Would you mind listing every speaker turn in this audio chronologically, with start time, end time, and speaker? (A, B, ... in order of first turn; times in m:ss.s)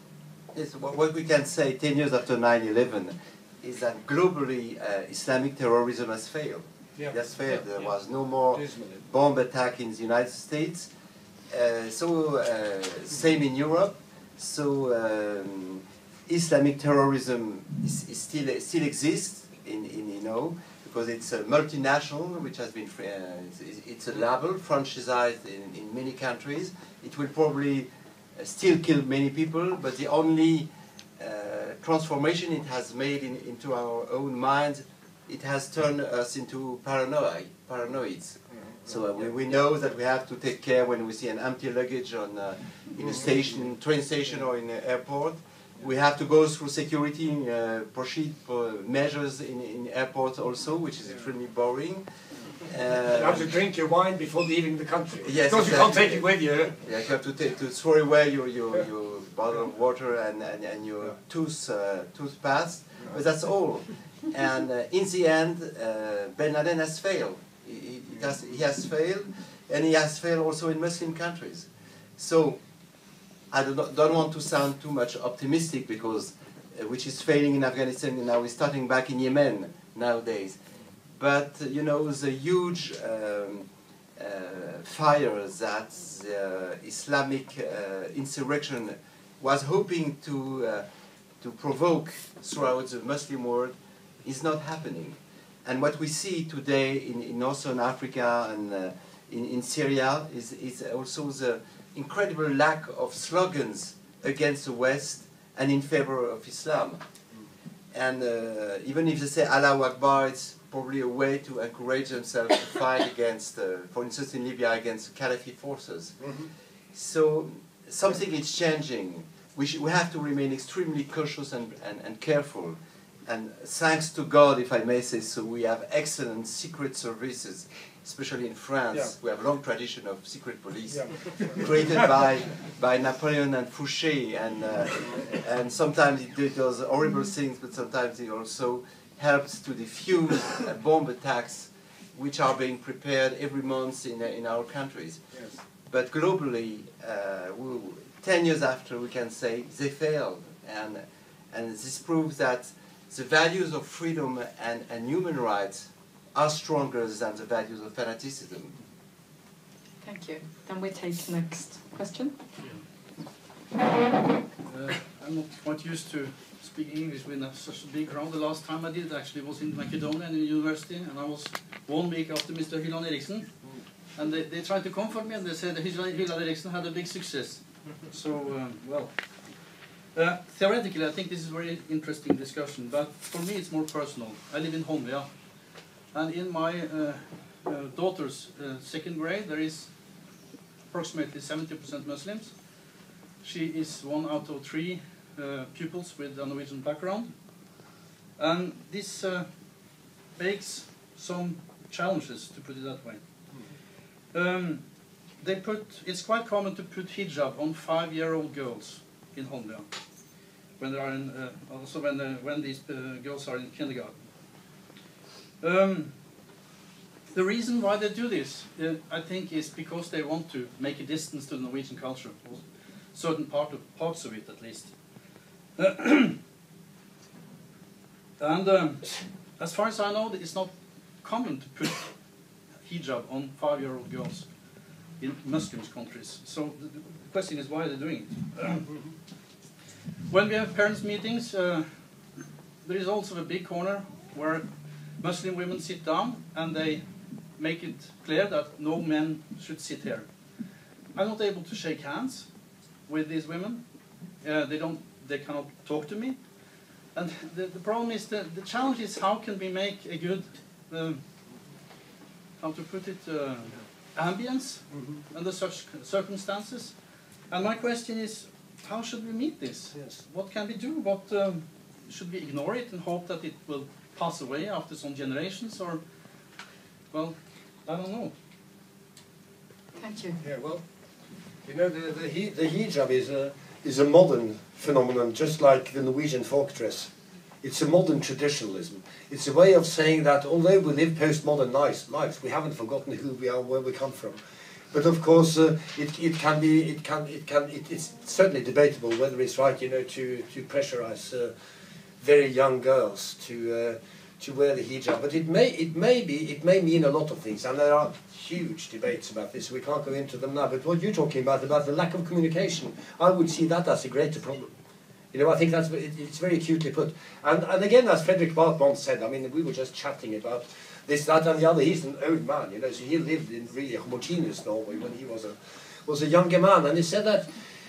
0:00.5-0:10.9 A
0:07.0-0:07.6 B
0:08.5-0:09.0 B
0:11.5-0:52.1 A
0:38.5-0:39.0 B
0:43.0-0:43.3 B
0:52.7-0:53.5 A
0:53.1-0:56.8 B
0:55.2-0:56.3 A
0:56.8-1:12.6 A
1:13.5-1:20.6 A
1:21.1-1:30.8 A
1:31.4-1:47.0 A
1:47.9-1:56.3 A
1:56.2-1:56.5 B
1:56.9-2:25.2 A
2:10.9-2:11.6 B
2:25.9-2:38.8 A
2:40.0-2:42.3 C
2:44.7-2:53.5 D
2:54.2-2:59.1 D
3:00.1-3:05.3 D
3:06.1-3:09.9 D
3:10.9-3:12.6 D
3:13.4-3:17.3 D
3:18.4-3:19.5 D
3:20.4-3:23.2 D
3:24.3-3:24.8 D
3:25.4-3:29.9 D
3:30.8-3:34.2 D
3:35.6-3:36.1 D
3:37.3-3:44.9 D
3:45.8-3:46.4 D
3:48.4-3:52.1 D
3:52.8-3:54.5 D
3:55.2-3:58.9 D
4:00.3-4:01.9 D
4:02.8-4:04.7 D
4:05.2-4:07.0 D
4:07.6-4:10.3 D
4:11.2-4:12.5 D
4:13.1-4:13.8 D
4:14.4-4:16.4 D
4:17.1-4:21.2 D
4:22.6-4:27.0 D
4:24.9-4:25.2 B
4:27.5-4:36.0 D
4:29.9-4:30.2 B
4:37.1-4:38.3 D
4:40.0-4:40.4 C
4:40.4-4:40.8 B
4:41.6-4:47.1 B
4:47.6-4:54.4 B
4:54.9-5:01.5 B
5:02.2-5:14.7 B
5:15.3-5:27.5 B